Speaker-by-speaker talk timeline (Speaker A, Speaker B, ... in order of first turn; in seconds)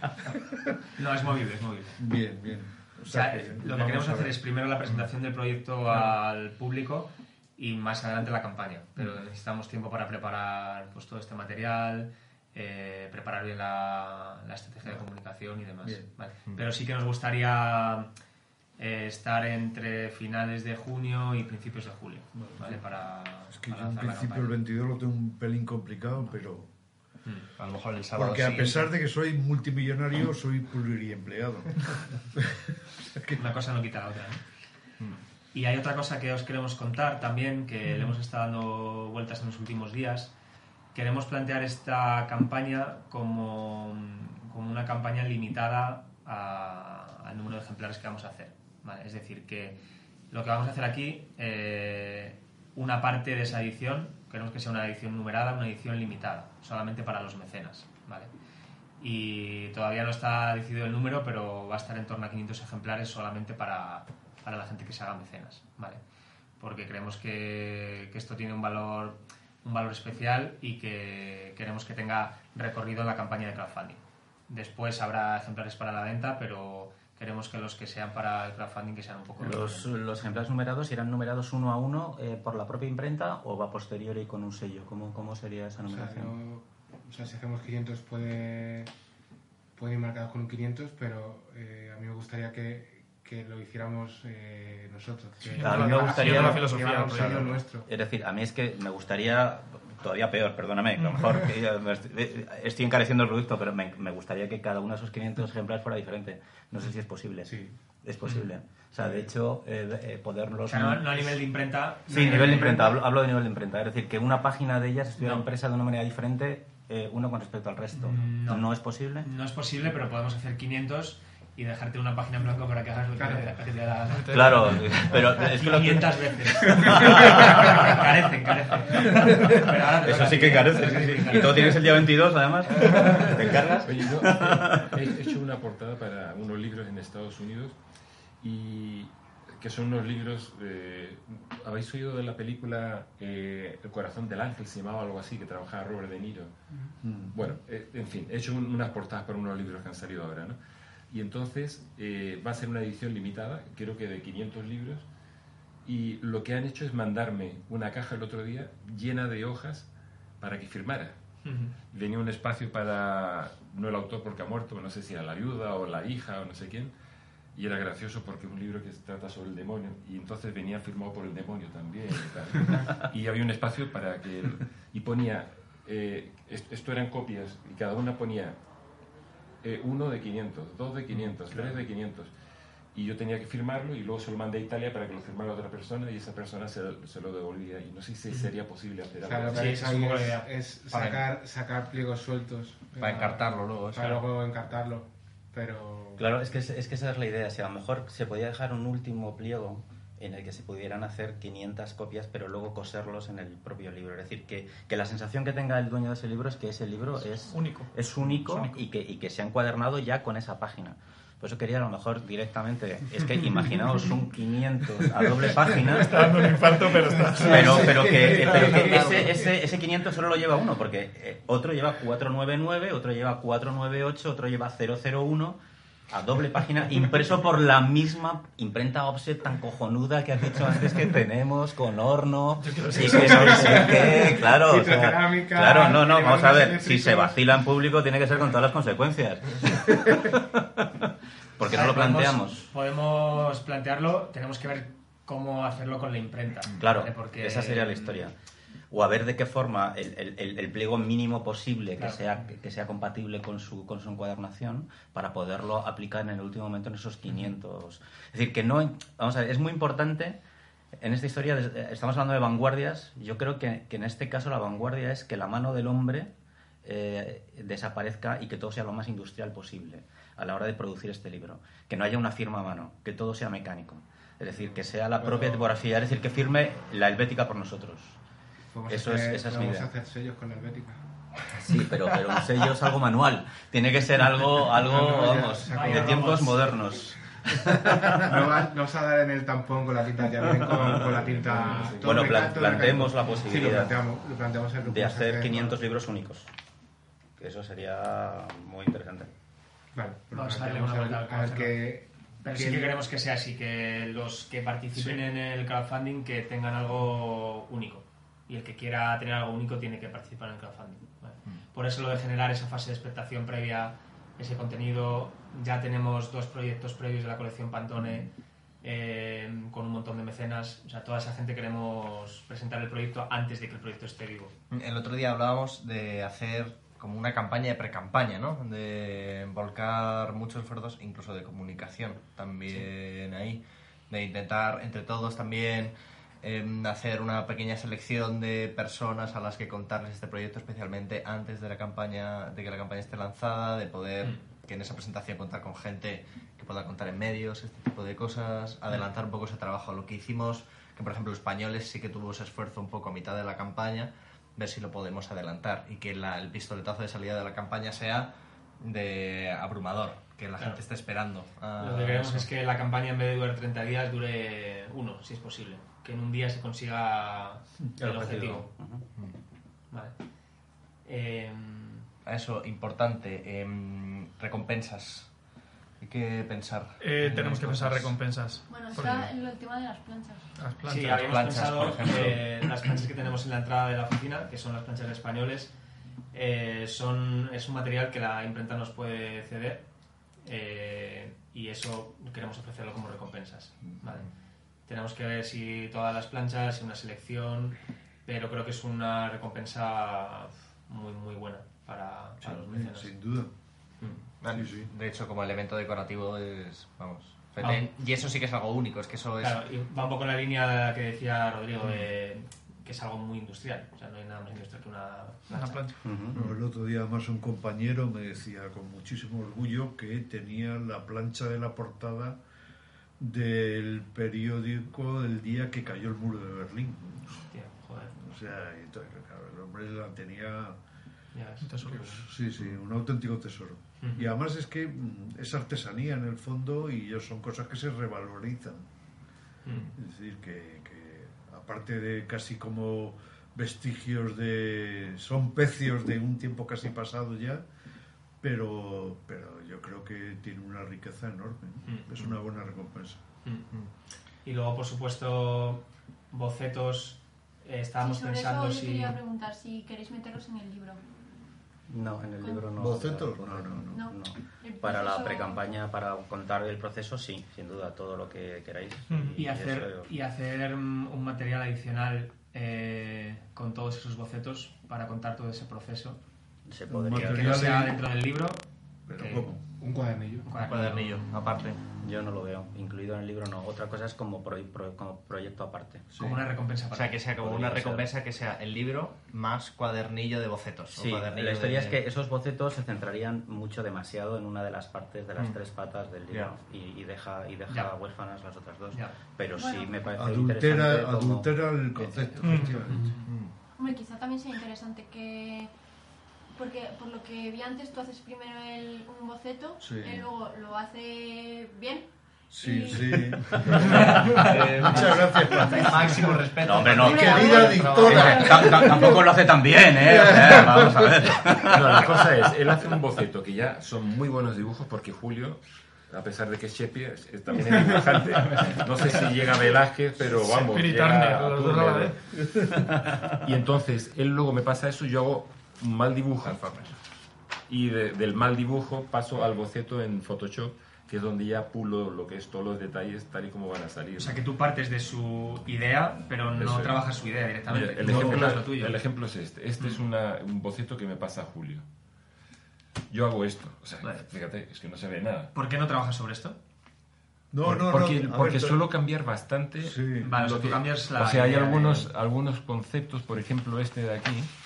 Speaker A: 0.9-2.0, 3.1-18.1, 18.8-24.5, 33.3-34.4, 35.5-40.3, 40.9-49.8, 50.3-58.3, 59.0-66.0, 66.6-79.9, 110.7-113.0, 118.0-118.7, 119.2-132.1, 132.8-133.3, 189.5-190.4, 241.7-248.2, 251.9-252.2, 285.7-286.7, 300.3-318.3, 318.8-324.5, 361.8-368.7, 371.0-372.1, 380.8-385.7, 386.3-394.3, 394.8-403.1, 409.4-415.9, 427.5-428.1, 431.3-432.2, 434.0-434.3, 439.6-439.9, 453.4-459.2, 469.4-476.2, 477.1-479.5, 480.4-481.2, 486.2-487.2, 497.7-498.0, 502.3-503.3, 544.2-549.0, 555.5-556.6, 560.2-562.1
Speaker B: 2.0-4.4, 22.4-22.8, 23.5-26.7, 28.1-33.5, 147.0-147.3, 217.4-219.0, 367.9-368.6, 402.4-403.5, 404.5-404.9, 416.3-422.4, 423.2-427.5, 428.1-430.8, 431.9-438.9, 439.9-447.6, 448.4-453.2, 462.7-464.1, 476.9-478.0, 479.1-479.6, 486.1-486.4, 500.2-503.0, 509.8-510.2, 512.5-516.2, 517.0-519.2, 520.0-521.3, 548.0-548.5, 557.5-558.8, 559.8-560.3
Speaker C: 27.6-28.9, 190.9-191.2, 193.0-194.2, 218.7-219.1, 324.7-362.5, 372.2-375.4, 376.0-378.2, 381.0-382.6, 404.0-409.6, 480.6-481.8, 486.9-492.0, 496.3-496.5, 503.0-503.5, 513.7-518.8, 536.4-536.9
Speaker D: 79.4-86.3, 95.5-111.4, 112.1-119.3, 124.3-128.0, 129.0-134.9, 196.2-216.6, 217.3-225.6, 226.1-242.7, 246.8-248.3, 248.9-260.4, 261.0-266.3, 266.8-278.2, 278.9-279.9, 281.5-288.5, 292.0-294.0, 294.8-296.5, 297.4-299.3, 368.8-369.0, 416.0-416.4, 461.9-470.1, 476.7-477.8, 482.0-486.1, 487.3-488.1, 490.9-502.3, 516.6-522.3
Speaker E: 85.8-88.9, 89.7-97.8, 107.5-107.7, 123.2-123.7, 189.2-196.2, 232.9-237.4, 274.5-275.7, 278.7-281.0, 284.7-286.5, 287.6-295.8, 299.9-303.0, 479.8-480.5, 527.5-529.4
Speaker F: 95.5-97.5, 124.1-125.0, 161.4-161.7, 207.5-207.9, 215.9-218.0, 232.6-233.8, 377.0-379.3, 380.6-381.4, 415.5-416.0, 431.6-432.1, 469.1-469.4, 502.4-502.8, 530.6-532.4
Speaker G: 133.8-137.8, 138.4-146.5, 147.3-150.6, 151.1-155.1, 155.8-159.9, 160.4-161.2, 161.9-166.9, 167.5-178.6, 179.6-182.3, 182.9-189.9, 290.7-292.7, 521.5-532.3, 533.4-536.7, 537.7-544.4, 546.5-547.0, 547.6-551.8, 553.1-555.5, 557.6-564.5
Speaker H: 378.7-380.5, 458.0-461.0, 462.4-462.7, 463.9-465.7, 499.5-500.0, 503.8-505.7, 506.5-513.9, 515.5-515.9, 517.0-519.0